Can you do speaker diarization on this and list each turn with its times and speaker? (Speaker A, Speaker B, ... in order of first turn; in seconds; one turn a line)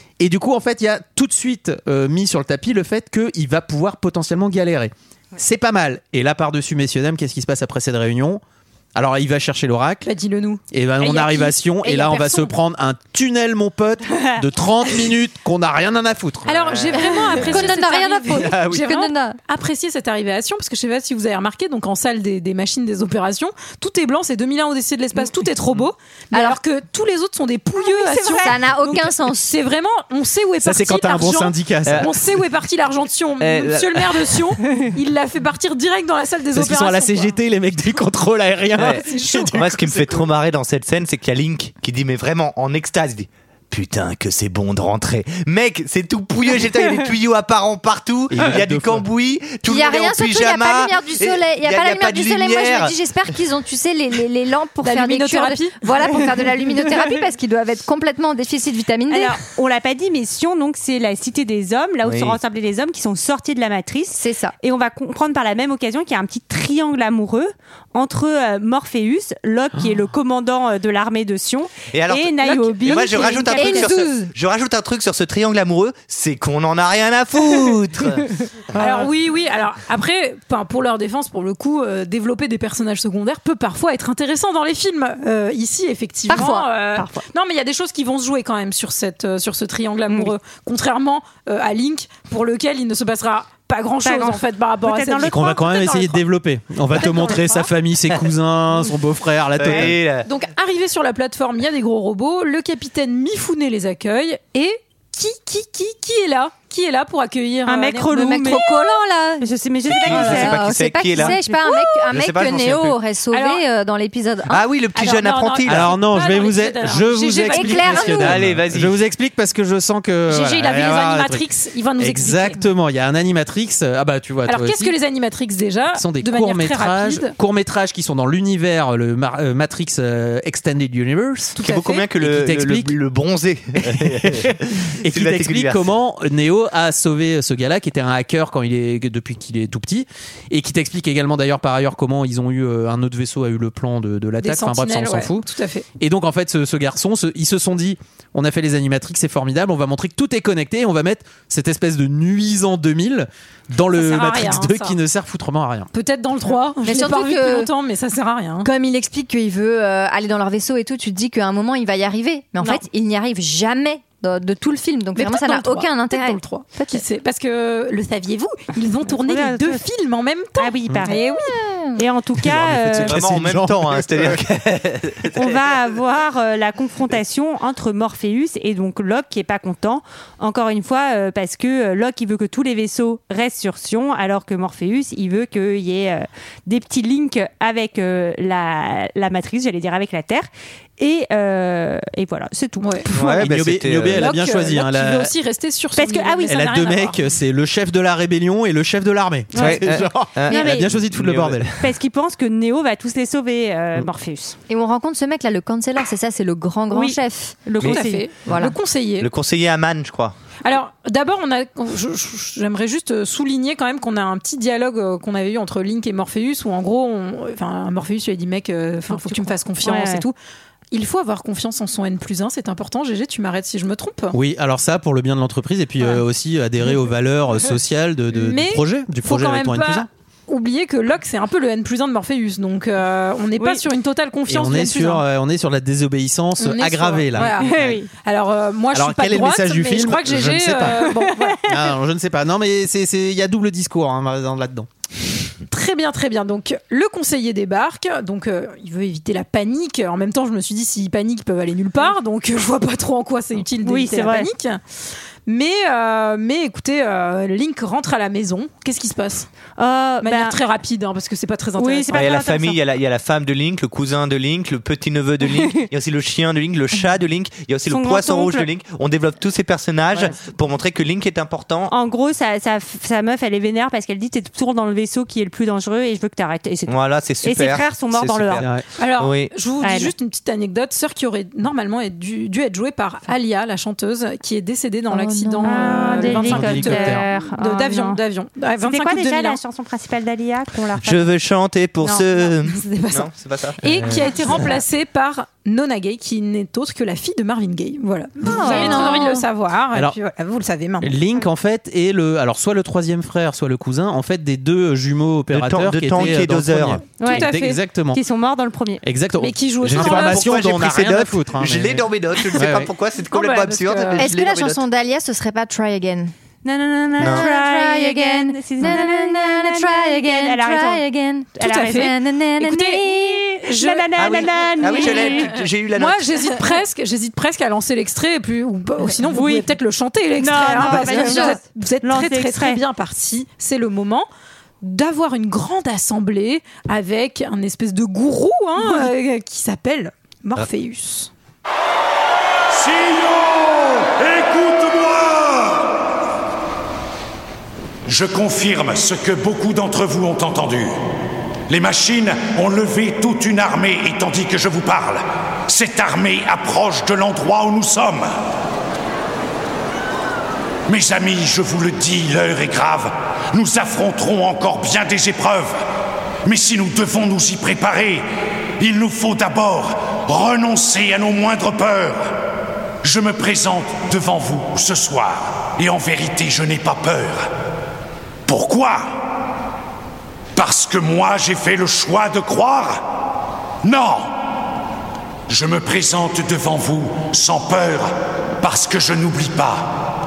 Speaker A: 0.2-8.4
Speaker A: 8.9-10.1
Speaker B: 10.0-12.5
Speaker A: 10.7-16.5
Speaker B: 16.4-37.4
Speaker C: 16.5-16.9
Speaker D: 16.9-19.4
Speaker D: 26.3-26.6
Speaker E: 27.8-28.6
Speaker D: 28.4-29.6
Speaker A: 30.6-32.1
Speaker C: 31.9-32.1
Speaker C: 33.4-34.4
Speaker A: 36.5-39.6
Speaker B: 38.7-40.2
Speaker C: 38.8-52.9
Speaker A: 48.3-49.1
Speaker D: 49.6-59.4
Speaker B: 54.8-55.8
Speaker E: 59.1-73.9
Speaker C: 62.0-62.4
Speaker D: 64.1-64.5
Speaker C: 71.9-79.0
Speaker B: 72.8-73.5
Speaker D: 72.8-74.3
Speaker B: 78.8-96.2
Speaker D: 86.3-86.7
Speaker E: 87.0-87.2
Speaker E: 94.0-96.0
Speaker A: 95.3-100.0
Speaker B: 96.9-97.7
Speaker C: 99.6-100.3
Speaker B: 100.2-108.7
Speaker E: 107.7-108.8
Speaker D: 108.1-114.7
Speaker E: 109.4-111.3
Speaker C: 109.9-111.4
Speaker C: 112.1-113.0
Speaker B: 113.3-113.6
Speaker C: 114.5-115.9
Speaker B: 115.0-118.3
Speaker A: 115.7-121.5
Speaker D: 117.5-118.4
Speaker C: 118.2-119.0
Speaker B: 120.3-122.6
Speaker A: 122.0-124.9
Speaker B: 124.5-127.3
Speaker A: 125.9-131.6
Speaker B: 131.6-132.1
Speaker C: 131.6-135.9
Speaker A: 132.2-132.9
Speaker A: 133.8-145.5
Speaker B: 144.4-145.9
Speaker A: 146.0-155.9
Speaker B: 153.9-155.0
Speaker B: 155.9-158.7
Speaker D: 156.8-157.7
Speaker D: 158.6-167.0
Speaker B: 165.2-171.4
Speaker E: 169.1-169.8
Speaker E: 170.6-171.2
Speaker D: 171.1-172.0
Speaker E: 172.0-173.2
Speaker A: 172.4-174.4
Speaker C: 173.1-175.8
Speaker E: 175.4-193.2
Speaker B: 192.8-193.1
Speaker C: 193.1-194.3
Speaker A: 193.2-195.3
Speaker B: 194.2-197.2
Speaker E: 196.0-196.5
Speaker A: 196.5-201.7
Speaker E: 199.5-199.8
Speaker C: 199.6-201.9
Speaker E: 200.5-200.9
Speaker E: 201.8-204.6
Speaker D: 204.7-207.7
Speaker E: 206.9-208.3
Speaker B: 207.8-209.3
Speaker C: 207.8-208.7
Speaker D: 208.5-208.8
Speaker C: 209.2-210.3
Speaker B: 210.6-220.3
Speaker E: 219.1-220.2
Speaker B: 220.9-224.4
Speaker A: 224.3-230.1
Speaker B: 228.3-235.2
Speaker A: 234.5-238.0
Speaker B: 236.6-241.6
Speaker E: 237.6-238.1
Speaker A: 238.9-241.1
Speaker E: 241.2-241.6
Speaker A: 241.7-244.9
Speaker B: 245.7-254.8
Speaker E: 253.8-254.5
Speaker B: 255.5-259.5
Speaker E: 259.8-260.6
Speaker B: 260.2-262.3
Speaker E: 261.8-262.8
Speaker C: 262.1-271.9
Speaker E: 265.4-265.8
Speaker E: 267.9-268.7
Speaker E: 271.9-278.6
Speaker C: 276.9-279.5
Speaker A: 278.6-278.9
Speaker B: 279.0-289.6
Speaker E: 279.8-280.1
Speaker D: 285.1-286.4
Speaker E: 285.6-288.2
Speaker A: 286.4-287.2
Speaker E: 288.8-291.3
Speaker C: 291.0-294.7
Speaker B: 292.4-301.1
Speaker E: 298.4-299.4
Speaker D: 298.6-299.4
Speaker A: 301.0-308.2
Speaker C: 305.5-307.0
Speaker E: 307.2-307.5
Speaker B: 307.2-307.8
Speaker E: 308.1-309.0
Speaker A: 309.0-312.9
Speaker B: 309.4-310.5
Speaker C: 309.8-314.8
Speaker B: 313.3-314.3
Speaker D: 314.2-316.3
Speaker E: 316.6-321.0
Speaker D: 317.2-323.4
Speaker C: 317.2-317.5
Speaker E: 321.6-322.1
Speaker B: 321.6-334.3
Speaker E: 323.0-325.5
Speaker C: 324.2-326.5
Speaker E: 329.3-329.7
Speaker E: 330.4-332.8
Speaker D: 330.7-331.6
Speaker B: 334.8-341.3
Speaker F: 342.7-345.8
Speaker F: 348.1-351.0
Speaker F: 351.7-358.3
Speaker F: 360.9-365.8
Speaker F: 366.4-368.2
Speaker F: 368.8-372.4
Speaker F: 373.0-377.5
Speaker F: 378.5-379.2
Speaker F: 380.6-383.1
Speaker F: 383.8-384.4
Speaker F: 385.5-389.9